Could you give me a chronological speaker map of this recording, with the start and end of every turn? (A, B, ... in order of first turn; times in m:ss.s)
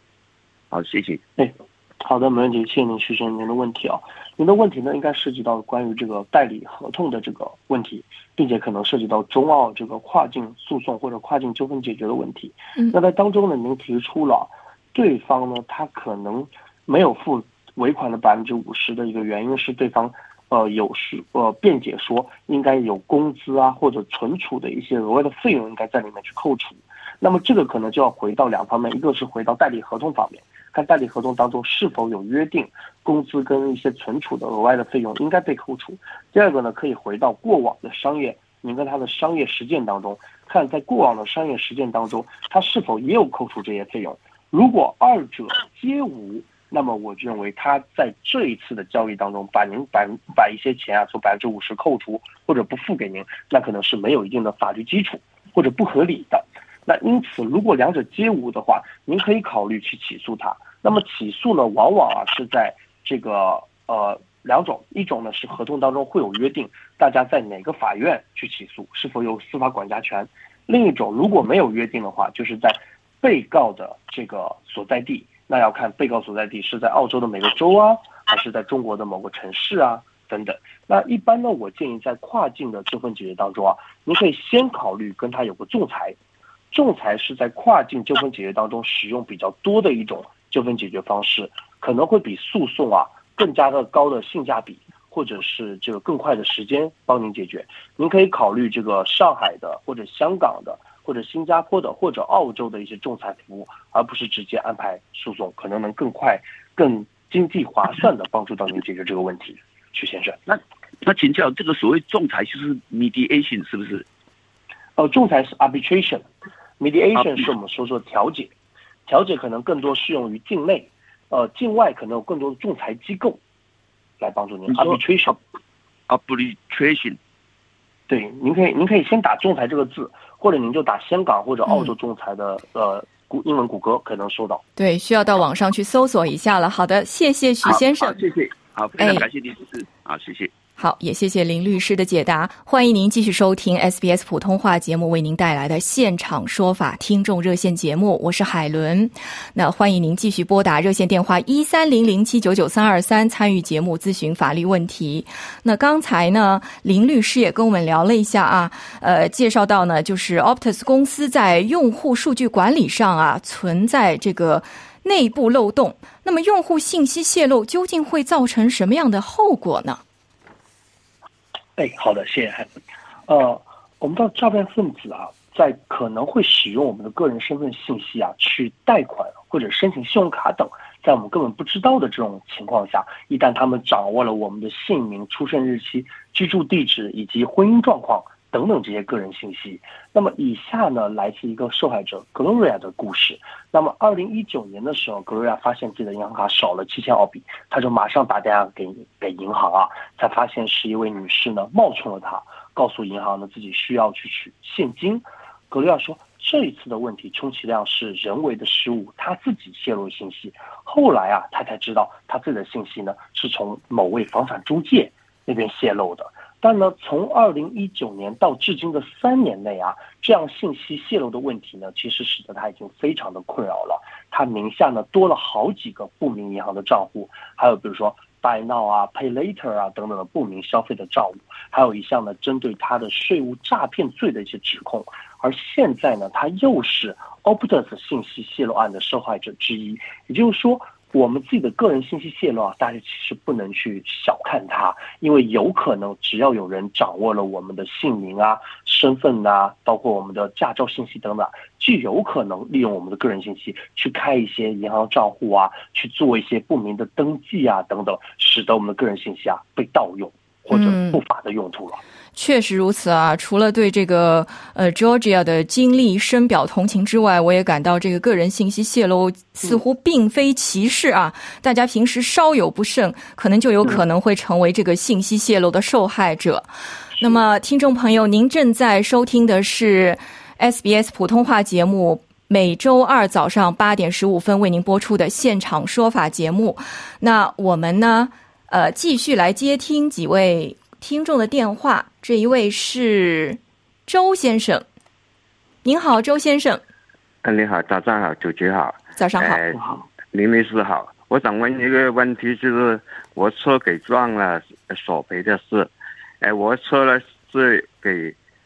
0:00.7-0:01.2 A
0:01.4-1:26.2 B
1:26.7-1:50.4 B
1:50.5-1:54.1 A
1:55.0-1:56.3 B
1:56.8-1:58.5 B
1:57.2-1:57.5 A
1:59.1-2:03.4 B
2:04.2-2:05.4 B
2:04.7-2:05.0 A
2:06.1-2:07.2 A
2:08.1-2:14.6 B
2:11.7-2:11.9 C
2:14.8-2:18.2 C
2:17.6-2:20.5 A
2:19.0-2:19.3 C
2:20.8-2:50.0 C
2:51.8-2:52.7 B
2:53.3-4:22.0 B
4:20.7-4:21.2 C
4:22.4-4:54.8 C
4:55.8-4:56.8 C
4:57.4-5:08.4 D
4:59.2-4:59.6 C
4:59.7-5:00.0 B